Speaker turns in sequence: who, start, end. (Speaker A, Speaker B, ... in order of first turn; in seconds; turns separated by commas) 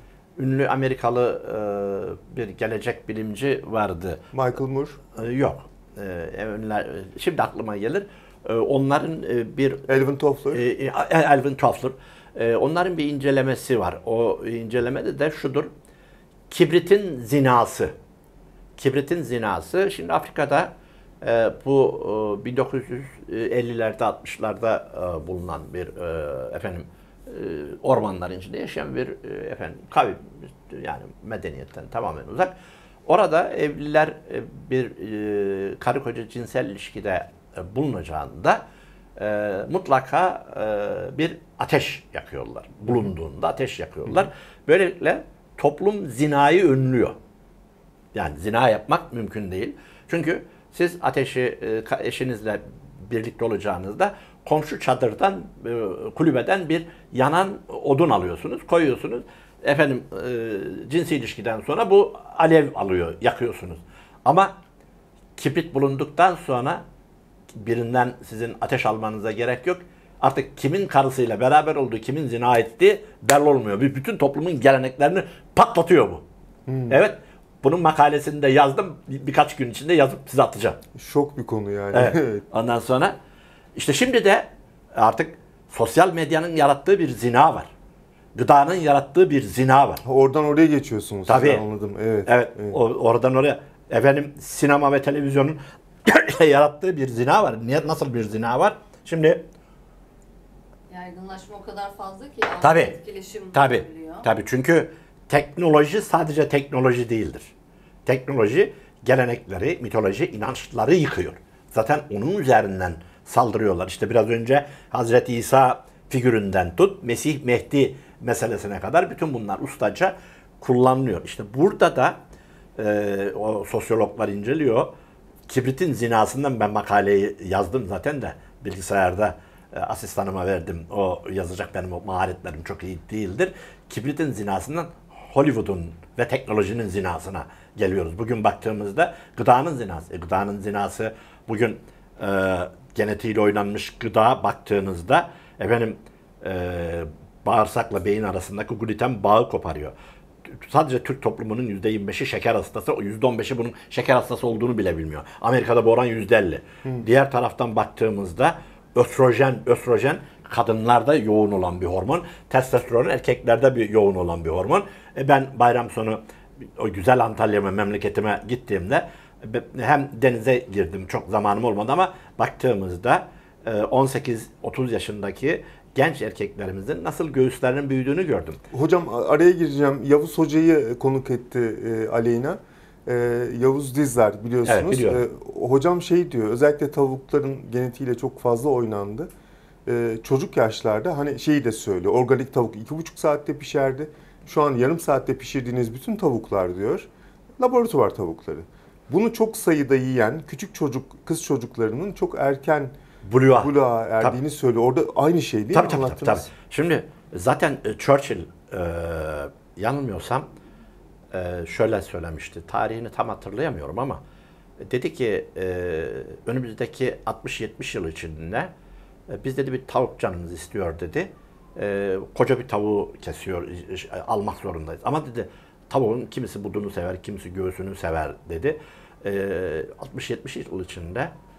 Speaker A: 0.4-4.2, Speaker B: 4.3-5.0, Speaker A: 5.1-9.9, Speaker B: 9.9-10.6, Speaker A: 10.5-15.7, Speaker A: 16.5-17.9, Speaker A: 18.8-32.5, Speaker A: 33.0-38.6, Speaker A: 39.1-47.1, Speaker A: 48.1-64.5, Speaker A: 65.3-66.8, Speaker A: 67.5-76.2, Speaker B: 76.7-77.0, Speaker A: 76.9-80.8, Speaker B: 80.9-82.4, Speaker A: 81.9-83.1, Speaker A: 83.8-87.7, Speaker A: 88.3-90.0, Speaker B: 90.0-92.8, Speaker A: 91.3-91.6, Speaker A: 92.2-99.4, Speaker C: 100.9-104.3, Speaker A: 102.6-103.0, Speaker A: 103.5-107.5, Speaker A: 108.0-122.2, Speaker A: 122.8-124.9, Speaker A: 125.5-149.9, Speaker A: 150.5-166.2, Speaker A: 166.8-178.6, Speaker B: 178.7-189.3, Speaker A: 184.6-185.2, Speaker B: 189.8-197.1, Speaker B: 197.6-202.9, Speaker A: 203.2-204.4, Speaker B: 203.6-206.5, Speaker A: 205.7-210.5, Speaker A: 211.3-214.2, Speaker A: 214.8-218.7, Speaker A: 219.3-231.3